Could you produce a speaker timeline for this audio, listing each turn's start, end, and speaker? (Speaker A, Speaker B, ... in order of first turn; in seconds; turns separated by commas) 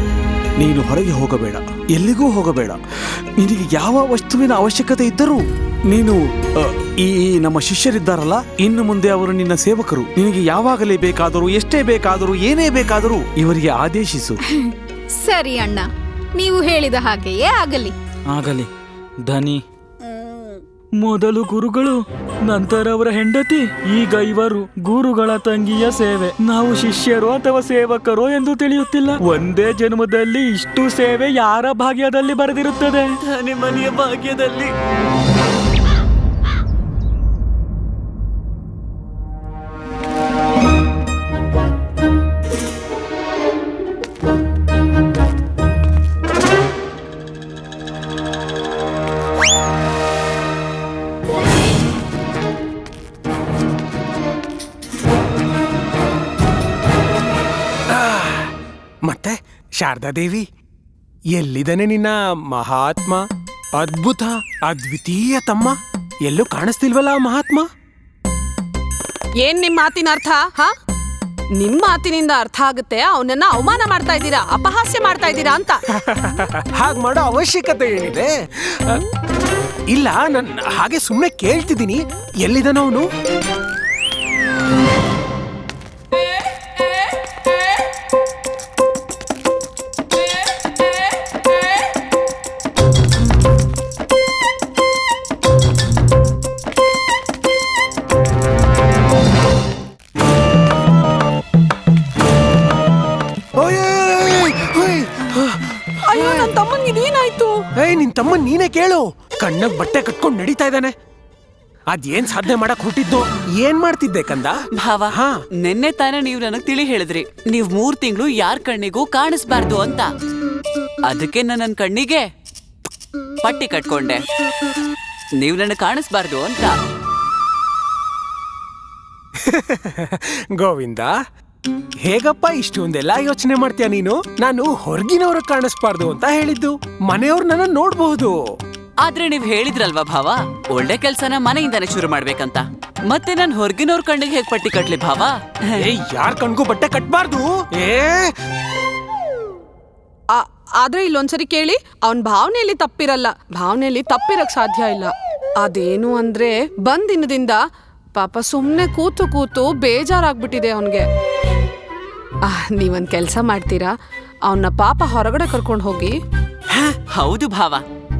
Speaker A: 0.6-14.4, Speaker B: 15.2-15.9, Speaker B: 16.4-17.9, Speaker C: 18.3-18.7, Speaker C: 19.2-19.6, Speaker D: 20.2-20.5, Speaker C: 21.0-33.2, Speaker D: 33.2-34.7, Speaker E: 57.9-58.5, Speaker E: 59.0-60.5, Speaker E: 61.3-63.2, Speaker E: 63.8-67.7, Speaker F: 69.4-70.7, Speaker F: 71.5-75.8, Speaker E: 76.0-79.0, Speaker E: 79.9-83.1, Speaker E: 103.6-106.5, Speaker F: 106.1-107.6, Speaker E: 107.8-110.9, Speaker E: 111.9-114.6, Speaker D: 114.8-120.1, Speaker D: 121.1-122.2, Speaker D: 123.4-124.2, Speaker D: 125.4-126.8, Speaker E: 129.4-131.1, Speaker E: 132.1-138.3, Speaker D: 139.0-145.3, Speaker E: 145.8-148.3, Speaker F: 150.3-157.6, Speaker F: 158.2-161.1, Speaker F: 162.4-163.9, Speaker F: 164.5-166.2, Speaker D: 167.1-167.8